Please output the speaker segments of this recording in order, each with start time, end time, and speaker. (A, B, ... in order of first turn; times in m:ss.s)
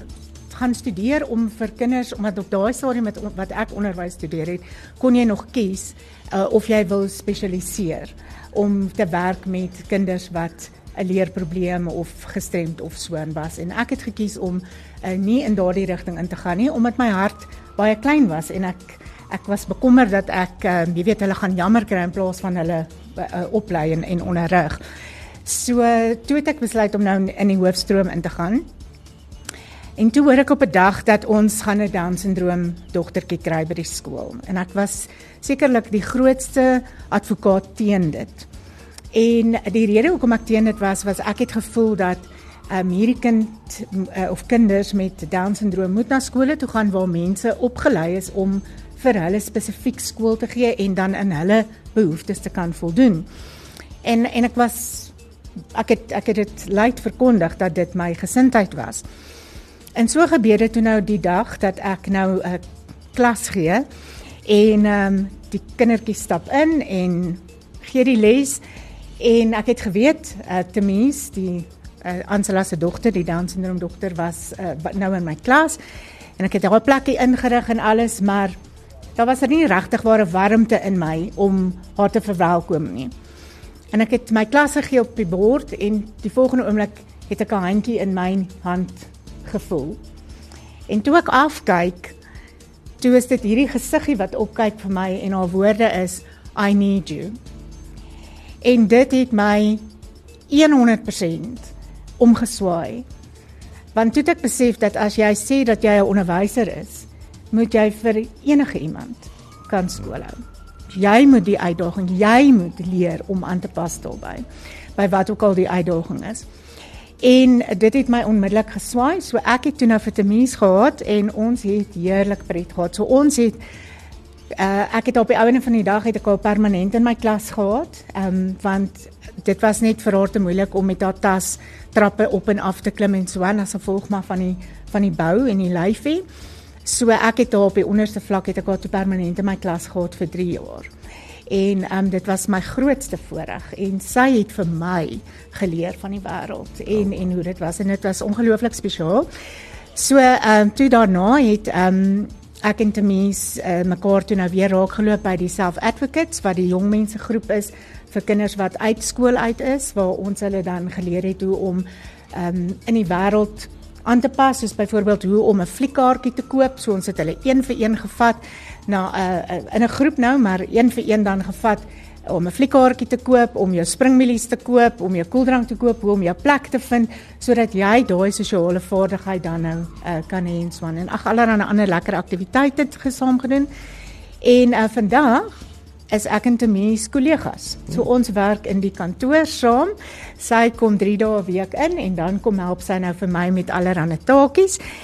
0:00.5-0:24.8 A
0:25.4-0:28.7 A
0:30.0-0:38.5 A
0:39.1-0:53.3 A
0:54.0-0:55.1 A
0:55.7-0:59.0 A
1:00.0-1:02.6 A
1:03.1-1:03.9 A
1:04.4-1:08.6 A
1:09.2-1:15.8 A
1:16.4-1:18.6 A
1:19.2-1:23.1 A
1:23.9-1:30.0 A
1:30.9-1:32.2 A
1:33.0-1:37.4 A
1:38.6-1:39.8 A
1:40.5-1:43.0 A
1:43.9-1:50.4 A
1:50.9-1:56.5 A
1:57.2-2:03.6 A
2:04.6-2:16.2 A
2:16.8-2:20.9 A
2:21.5-2:29.3 A
2:30.0-3:03.7 A
3:04.4-3:05.5 A
3:06.1-3:14.8 A